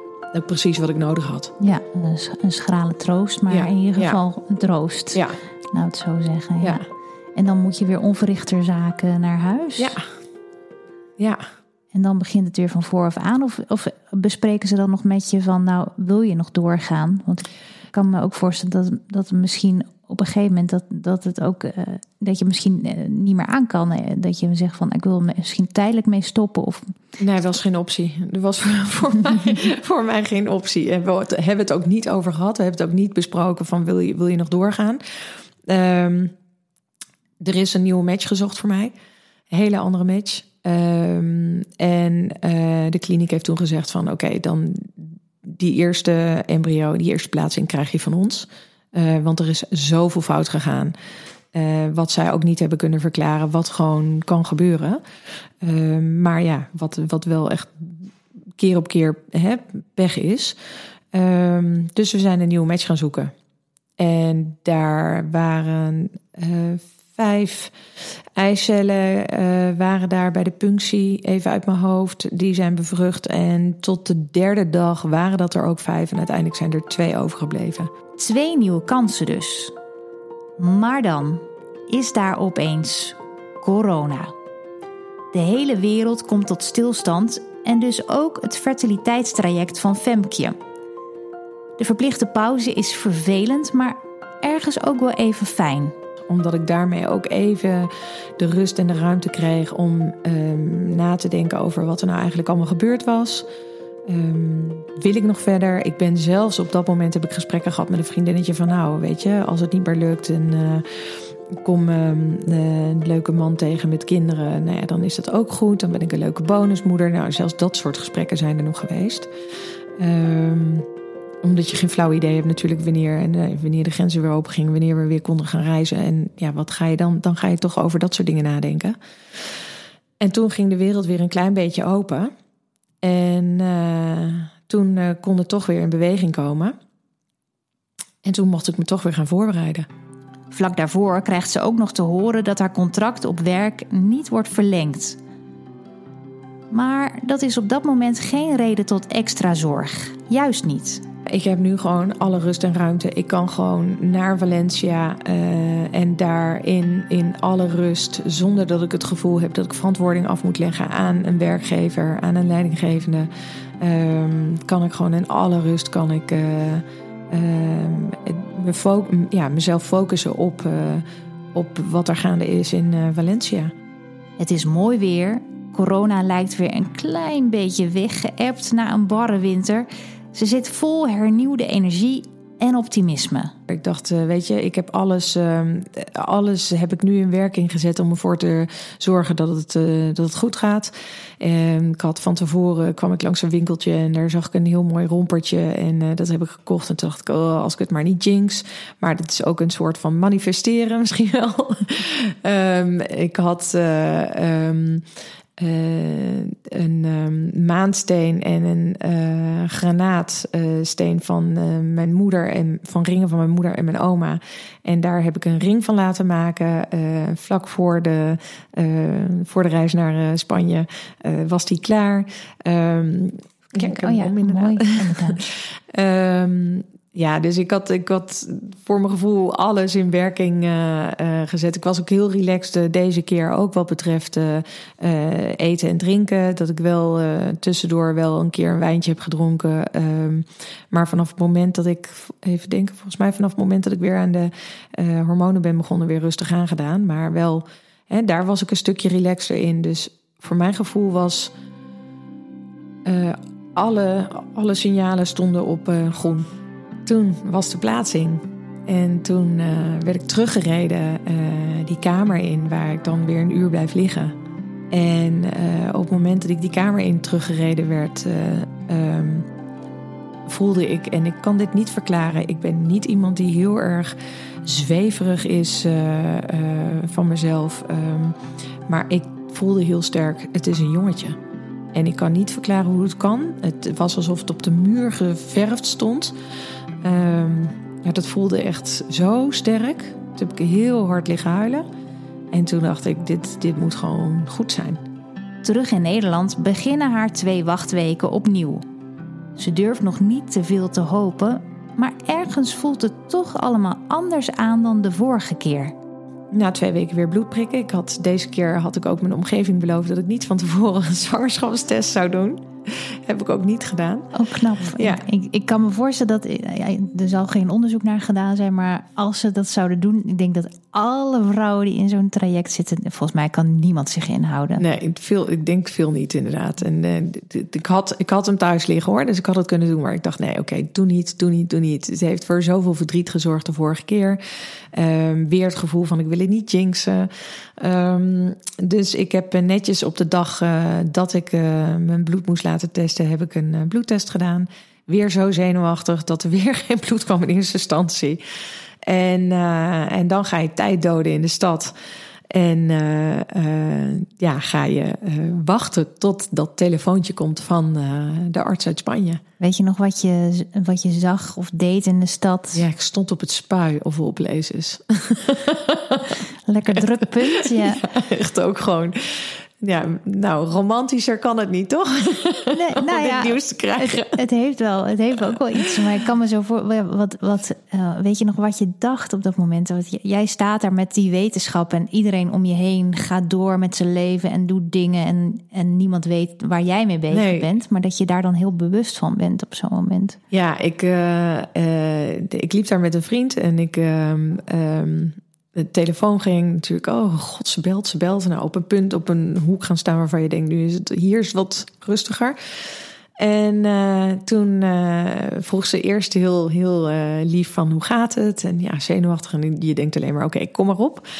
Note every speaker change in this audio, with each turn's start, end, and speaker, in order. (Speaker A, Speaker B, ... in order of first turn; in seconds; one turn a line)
Speaker A: 0.3-1.5
Speaker B: 1.6-9.9
Speaker A: 3.5-4.2
Speaker A: 9.8-10.0
Speaker A: 11.2-11.4
Speaker B: 11.9-27.0
Speaker A: 27.2-36.4
Speaker A: 37.4-38.9
Speaker A: 39.5-50.9
Speaker A: 51.5-55.0
Speaker A: 55.6-60.6
Speaker A: 61.1-63.3
Speaker A: 64.0-77.9
Speaker B: 78.2-79.7
Speaker B: 80.6-84.3
Speaker B: 85.3-90.6
Speaker B: 91.8-96.0
Speaker A: 96.3-103.5
Speaker A: 104.1-119.3
Speaker A: 120.0-120.9
Speaker A: 121.4-129.5
Speaker A: 130.2-132.3
Speaker A: 133.0-136.8
Speaker A: 138.2-139.9
Speaker B: 140.5-145.2
Speaker B: 146.7-151.1
Speaker A: 151.3-173.7
Speaker B: 174.4-183.6
Speaker A: 183.7-205.1
Speaker A: 205.6-251.5
Speaker B: 223.8-225.4
Speaker A: 253.1-256.5
Speaker A: 257.1-264.4
Speaker A: 264.9-269.5
Speaker A: 270.5-281.4
Speaker A: 281.9-286.3
Speaker A: 287.0-291.9
Speaker A: 292.5-295.0
Speaker B: 295.6-298.8
Speaker B: 299.6-305.9
Speaker A: 306.5-315.2
Speaker B: 314.3-324.9
Speaker A: 324.8-348.4
Speaker A: 349.0-351.9
Speaker A: 352.5-359.4
Speaker B: 359.6-362.9
Speaker A: 362.7-366.4
Speaker B: 366.7-368.1
Speaker A: 366.9-374.4
Speaker B: 372.7-390.4
Speaker A: 375.7-376.0
Speaker A: 387.3-387.7
Speaker A: 390.5-411.2